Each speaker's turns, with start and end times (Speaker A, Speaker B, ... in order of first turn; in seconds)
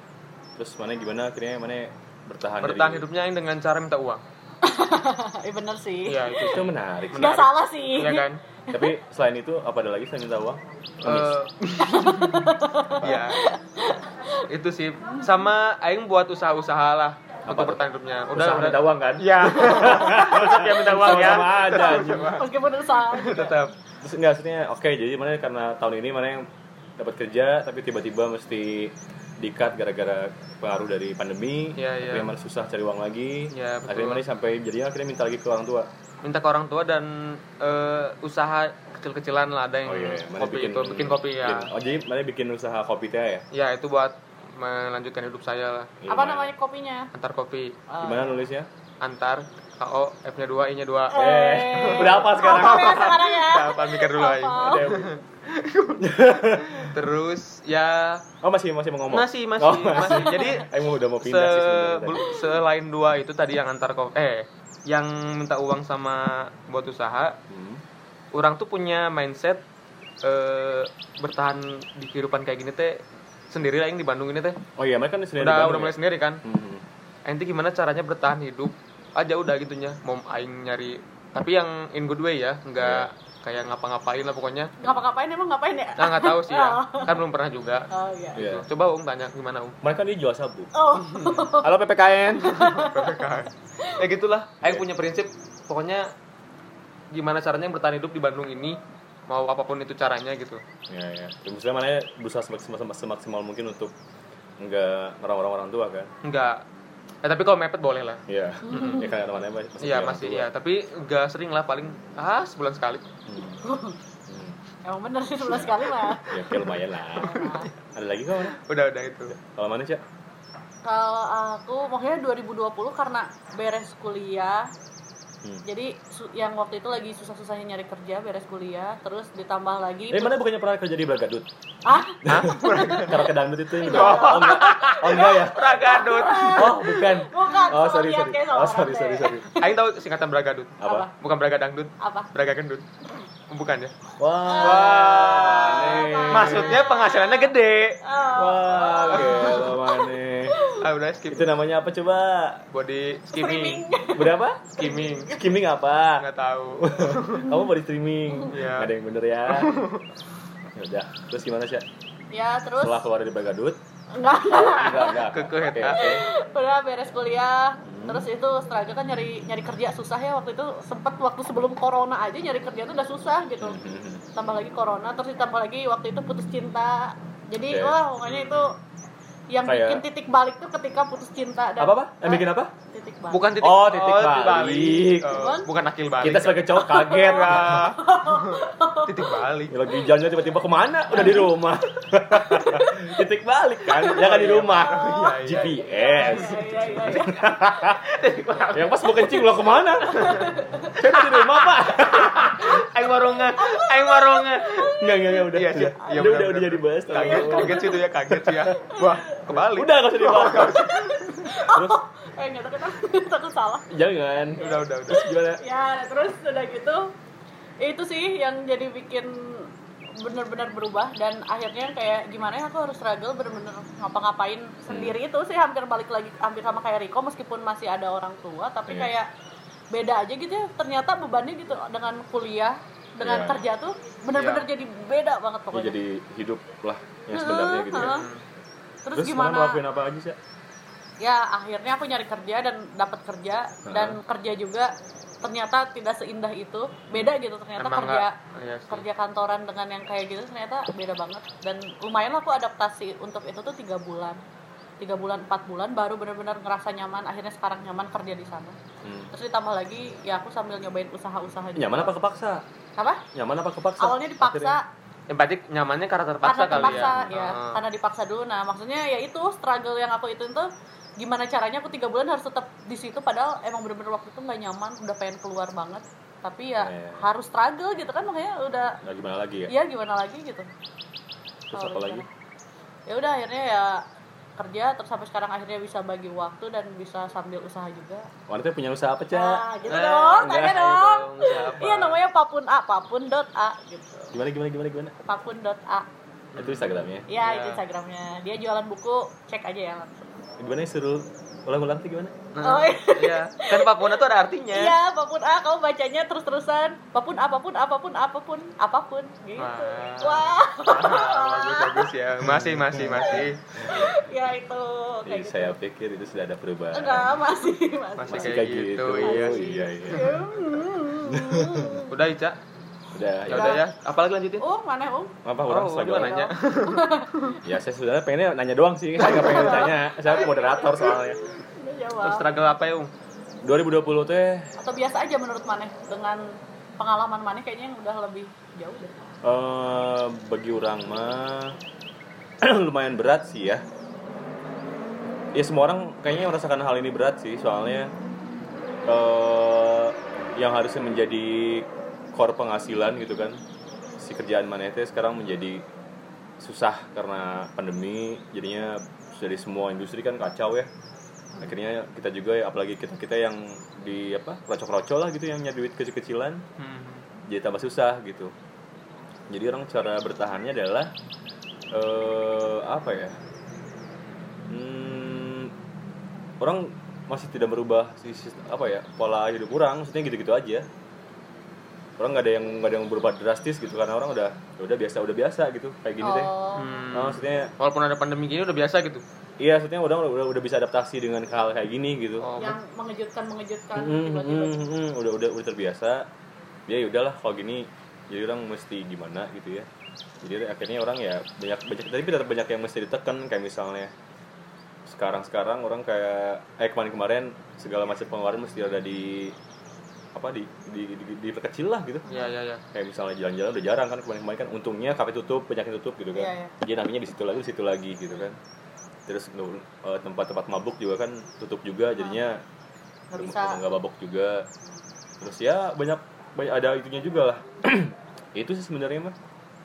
Speaker A: 0.6-3.1, 6.4-7.5, 8.7-11.4, 17.5-17.8, 18.3-22.4, 24.0-35.9, 39.9-43.5, 46.0-46.5, 48.0-48.7, 51.1-53.2, 54.5-55.1, 56.0-56.9, 58.4-62.4, 67.5-67.8, 74.8-76.8, 82.8-83.1, 88.3-88.7, 89.8-90.7, 91.6-92.5, 100.9-103.9, 104.6-106.1, 108.3-110.5, 113.3-113.6, 114.3-114.6, 115.5-115.7, 116.3-118.6, 119.3-120.0, 130.1-131.5, 132.2-135.8, 136.5-139.5, 140.8-141.1, 144.2-146.8, 148.3-150.6, 151.3-152.7, 154.1-154.7, 155.3-156.3, 156.8-159.7, 160.7-161.8, 162.8-163.8, 164.5-166.2, 167.8-168.2, 173.6-174.2, 177.7-178.0, 179.6-180.0, 181.8-182.7, 183.6-185.5, 186.2-187.9, 189.7-198.0, 198.7-200.3, 200.9-202.8, 205.0-208.7, 209.5-210.9, 211.6-212.0, 213.9-215.6, 224.9-225.1, 228.9-229.1, 233.2-233.6, 235.7-238.2, 239.1-240.4, 243.8-244.2, 259.0-259.3, 261.7-262.6, 263.3-264.7, 266.7-267.3, 276.8-277.2, 279.0-279.7, 281.7-282.2, 288.5-289.7, 290.4-290.8, 294.3-295.1, 296.5-297.3, 300.6-302.4, 312.4-314.1, 315.2-317.4, 318.3-320.4, 321.3-322.0, 323.1-323.8, 325.4-326.4, 327.6-331.4, 333.6-334.7, 339.4-341.8, 342.6-343.8, 345.5-348.1, 349.1-353.6, 354.2-355.8, 356.6-360.9, 361.6-366.6, 367.5-368.5, 369.5-371.1, 371.9-373.4, 374.7-375.7, 376.6-380.9, 382.2-386.5, 387.1-387.7, 389.6-392.5, 393.9-396.3, 396.9-399.9, 400.4-404.1, 405.1-409.6, 410.3-412.3, 412.9-418.6, 419.3-422.6, 423.4-424.7, 425.4-429.4
Speaker B: 2.6-4.2, 6.1-8.4, 11.0-12.5, 13.0-13.4, 14.5-22.5, 23.1-23.7, 31.8-32.3, 33.5-34.2, 36.2-41.7, 43.5-45.9, 47.1-47.8, 49.0-58.2, 59.1-67.4, 68.3-69.6, 70.2-74.6, 75.4-76.4, 77.2-84.8, 86.0-89.8, 91.1-91.4, 92.5-96.1, 97.1-100.6, 106.2-106.6, 107.2-109.1, 109.8-113.0, 117.3-117.7, 118.4-119.3, 132.3-133.2, 133.8-137.1, 139.6-142.9, 143.5-143.9, 144.6-148.0, 149.1-149.6, 150.8-151.5, 152.7-153.8, 154.7-155.4, 156.2-157.5, 158.5-158.9, 159.5-160.0, 164.9-166.2, 178.2-178.7, 183.3-189.8, 194.1-199.2, 200.1-200.5, 201.0-211.5, 214.6-215.2, 234.3-234.7, 237.9-238.4, 247.8-249.0, 265.3-267.8, 289.9-292.2, 296.5-297.8, 302.5-304.9, 309.6-313.6, 318.2-320.3, 322.1-322.6, 323.5-324.6, 325.7-327.5, 332.2-333.1, 366.8-367.2, 386.7-389.2, 392.4-392.8, 412.3-412.8
Speaker C: 4.6-6.6, 7.1-8.9, 11.8-14.4, 21.7-23.6, 46.1-47.1, 47.9-48.4, 51.1-54.9, 60.0-60.5, 84.8-87.2, 87.9-88.4, 90.7-91.7, 92.4-93.2, 108.7-109.1, 113.6-114.0, 114.8-117.7, 120.8-124.7, 125.6-130.4, 131.8-133.2, 133.8-139.7, 140.8-141.1, 142.0-142.3, 144.4-147.5, 148.0-150.8, 153.3-155.4, 162.3-163.1, 164.1-165.2, 165.9-173.8, 174.3-178.8, 179.5-183.5, 185.3-185.7, 186.7-189.3, 191.1-191.5, 192.3-193.1, 194.8-197.3, 200.1-200.9, 203.6-203.9, 207.1-208.0, 208.8-209.4, 210.4-213.9, 215.5-217.1, 217.8-229.3, 229.9-235.9, 237.3-238.2, 239.0-239.8, 241.2-244.9, 245.4-248.3, 248.9-254.4, 255.0-258.8, 259.3-262.1, 263.0-263.2, 264.0-264.8, 266.4-279.0, 279.7-280.7, 281.7-282.2, 283.1-284.0, 284.6-288.3, 289.3-294.3, 295.2-296.1, 297.3-300.3, 302.6-304.1, 304.7-312.1, 313.4-315.7, 316.9-318.6, 319.2-322.1, 323.5-323.8, 324.6-325.3, 326.1-327.6, 329.2-332.4, 334.8-336.4, 337.0-339.1, 386.2-387.0, 392.6-394.8, 412.3-412.5, 416.3-416.7, 423.3-423.8